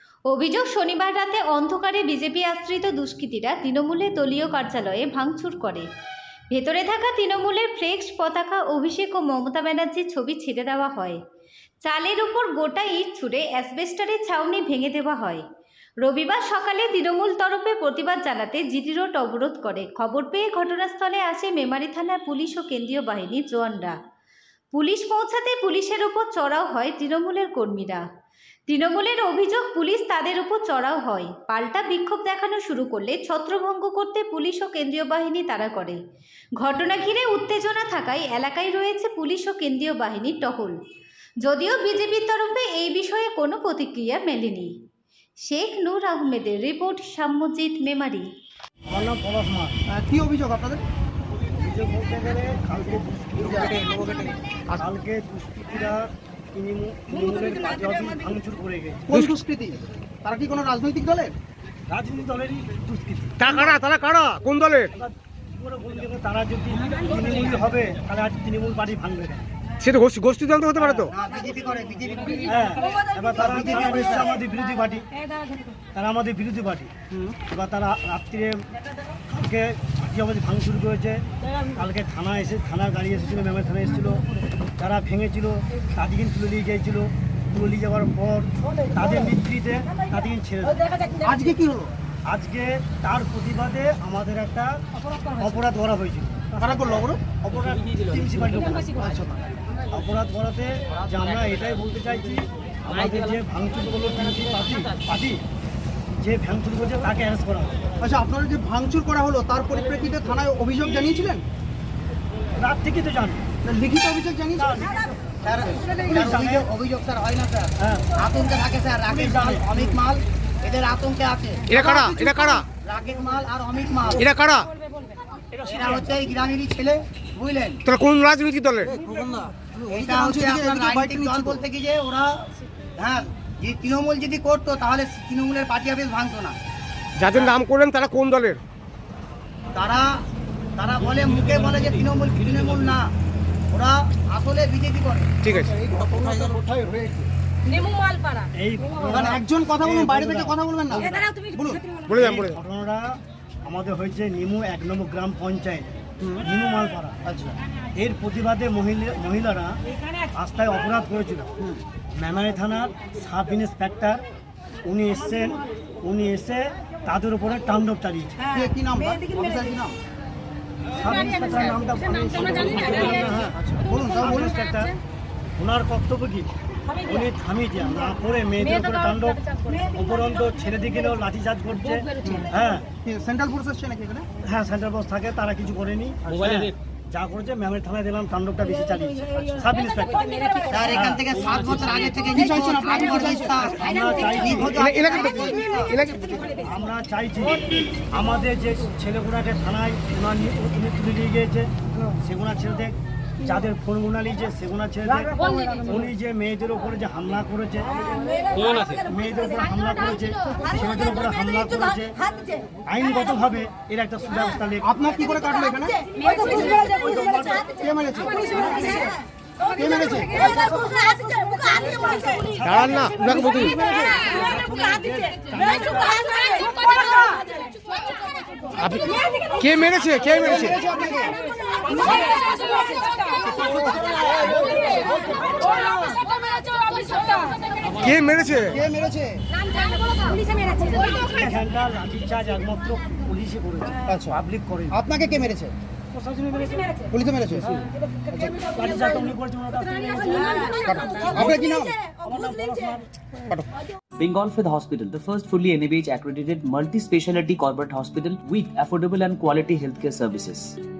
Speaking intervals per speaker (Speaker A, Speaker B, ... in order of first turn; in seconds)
Speaker A: 0.3-5.9, 6.5-11.2, 11.8-15.4, 16.0-24.0, 24.7-28.1, 28.7-36.0, 36.6-40.8, 41.4-44.7, 45.4-48.3
Speaker B: 48.9-49.9, 51.5-54.0, 54.8-59.1, 61.9-63.4, 64.9-69.5, 72.5-75.1, 75.9-76.9, 77.5-78.6, 79.3-84.2, 84.8-90.8, 92.3-94.8, 95.4-96.6, 97.4-99.1, 99.9-105.4, 106.1-107.8, 112.6-113.4, 114.6-114.9, 116.0-116.7, 117.8-118.1, 119.1-119.7, 148.5-151.1, 152.2-157.2, 157.9-159.8, 160.3-161.5, 162.2-164.2, 164.8-168.4, 170.9-173.6, 174.1-175.0, 175.6-182.9, 184.4-190.3, 190.9-191.2, 193.6-194.8, 196.5-208.0, 208.8-212.2, 212.9-214.9, 216.5-217.7, 221.8-222.5, 224.1-226.4, 240.7-245.0, 246.2-246.9, 248.6-251.6, 252.2-253.0
Speaker C: 49.9-50.8, 53.5-54.3, 59.1-61.4, 73.7-74.2, 77.1-77.4, 91.2-91.9, 96.6-97.3, 98.8-99.6, 108.0-111.4, 113.6-114.9, 128.9-131.6, 145.8-147.3, 149.1-152.0, 156.2-156.4, 157.2-157.6, 168.5-169.9, 173.5-174.6, 182.2-184.3, 192.3-193.6, 214.8-216.2, 217.6-219.1, 219.7-221.1, 230.4-231.4, 238.7-239.4, 244.1-244.4, 244.9-245.7, 247.1-248.5, 250.8-252.1, 253.4-253.7
Speaker D: 63.4-64.9, 69.8-71.1, 121.7-122.7, 124.2-124.7, 127.8-128.9, 137.2-138.6, 145.4-145.8, 152.1-152.6, 194.8-195.3, 195.9-196.2, 222.6-223.8, 228.8-230.8, 237.8-238.8
Speaker E: 71.0-72.6, 115.4-121.8, 122.7-124.2, 125.6-127.8, 129.9-136.6, 137.3-137.6, 139.7-140.2, 140.8-143.1, 143.7-145.3, 190.7-196.1
Speaker F: 254.2-260.8